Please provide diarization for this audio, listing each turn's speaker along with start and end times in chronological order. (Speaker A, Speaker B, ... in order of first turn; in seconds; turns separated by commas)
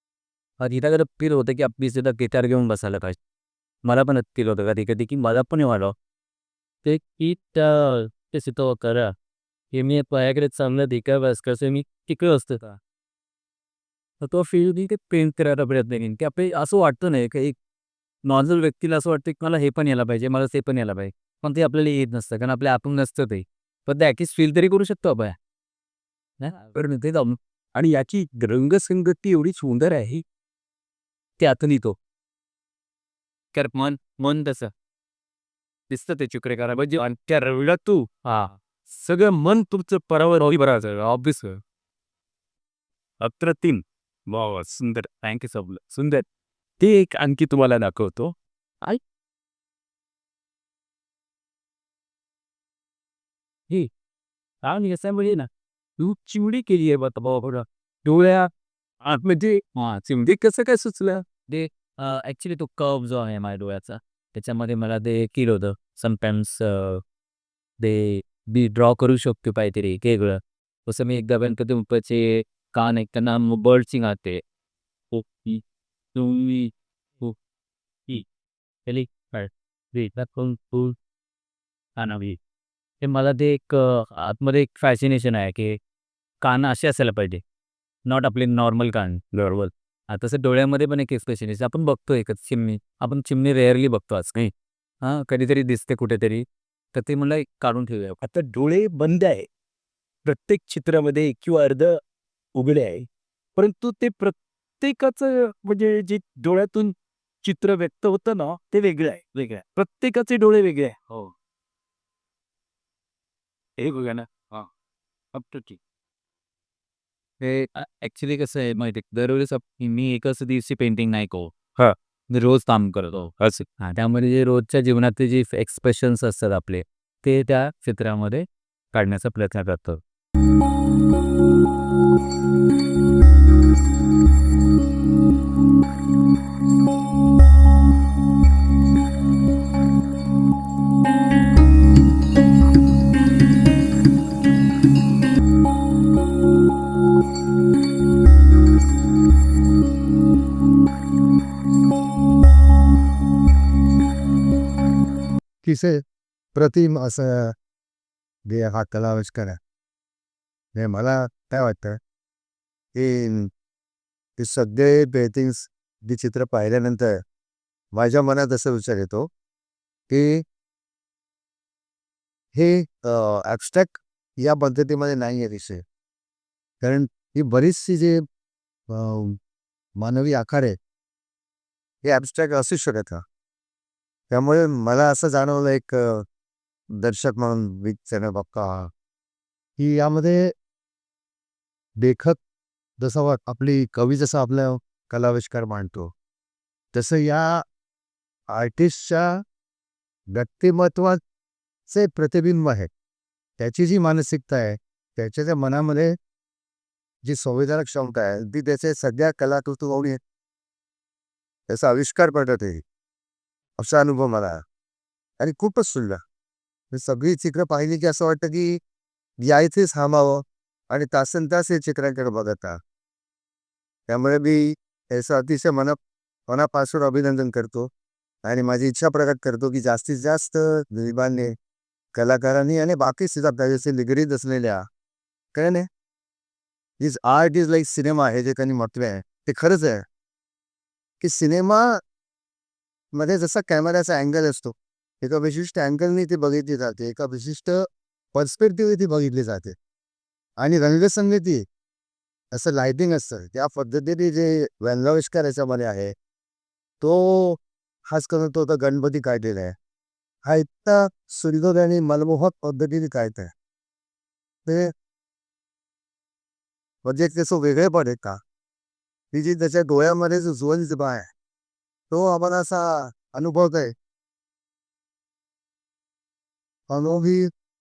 Speaker A: 0.6-3.2, Speaker A: 3.8-6.0, Speaker A: 6.8-9.1, Speaker A: 9.7-12.8, Speaker A: 14.2-17.6, Speaker A: 18.2-25.4, Speaker A: 26.4-27.4, Speaker B: 27.8-30.2, Speaker A: 31.4-31.9, Speaker A: 33.5-34.7, Speaker A: 35.9-37.0, Speaker B: 37.0-38.1, Speaker A: 38.2-38.6, Speaker B: 38.9-41.6, Speaker B: 43.2-46.2, Speaker B: 46.8-48.4, Speaker A: 54.6-55.5, Speaker B: 56.0-58.5, Speaker B: 59.0-61.2, Speaker A: 61.5-67.0, Speaker A: 67.8-74.4, Speaker A: 75.1-75.6, Speaker A: 76.1-77.3, Speaker A: 78.9-81.0, Speaker A: 82.0-82.4, Speaker A: 83.0-85.8, Speaker A: 86.4-87.4, Speaker A: 88.1-98.2, Speaker B: 98.2-99.5, Speaker B: 100.2-102.0, Speaker B: 102.5-111.3, Speaker A: 108.8-109.6, Speaker B: 113.8-114.7, Speaker B: 115.3-115.8, Speaker A: 117.4-121.6, Speaker A: 122.3-130.0, Speaker B: 123.4-123.7, Speaker C: 155.6-156.0, Speaker C: 156.5-157.6, Speaker C: 158.5-159.6, Speaker C: 160.8-162.0, Speaker C: 162.9-163.5, Speaker C: 164.4-167.2, Speaker C: 167.9-169.3, Speaker C: 170.1-170.4, Speaker C: 172.5-175.8, Speaker C: 176.8-178.2, Speaker C: 178.9-179.4, Speaker C: 180.0-180.8, Speaker C: 182.0-183.2, Speaker C: 184.3-186.2, Speaker C: 187.0-188.9, Speaker C: 189.8-190.5, Speaker C: 192.0-192.4, Speaker C: 193.0-196.1, Speaker C: 196.9-197.7, Speaker C: 198.5-199.4, Speaker C: 200.3-201.2, Speaker C: 201.9-202.9, Speaker C: 203.6-206.2, Speaker C: 207.2-210.2, Speaker C: 211.7-212.8, Speaker C: 213.8-214.6, Speaker C: 215.4-216.2, Speaker C: 216.9-218.8, Speaker C: 219.4-222.8, Speaker C: 224.1-227.9, Speaker C: 228.4-231.5, Speaker C: 232.1-234.8, Speaker C: 235.5-235.9, Speaker C: 237.0-240.1, Speaker C: 241.2-242.0, Speaker C: 243.1-249.8, Speaker C: 250.6-251.7, Speaker C: 252.5-256.1, Speaker C: 257.0-259.8, Speaker C: 260.4-263.5, Speaker C: 264.6-264.9, Speaker C: 267.0-268.4, Speaker C: 269.3-271.3, Speaker C: 272.1-273.9, Speaker C: 276.9-277.5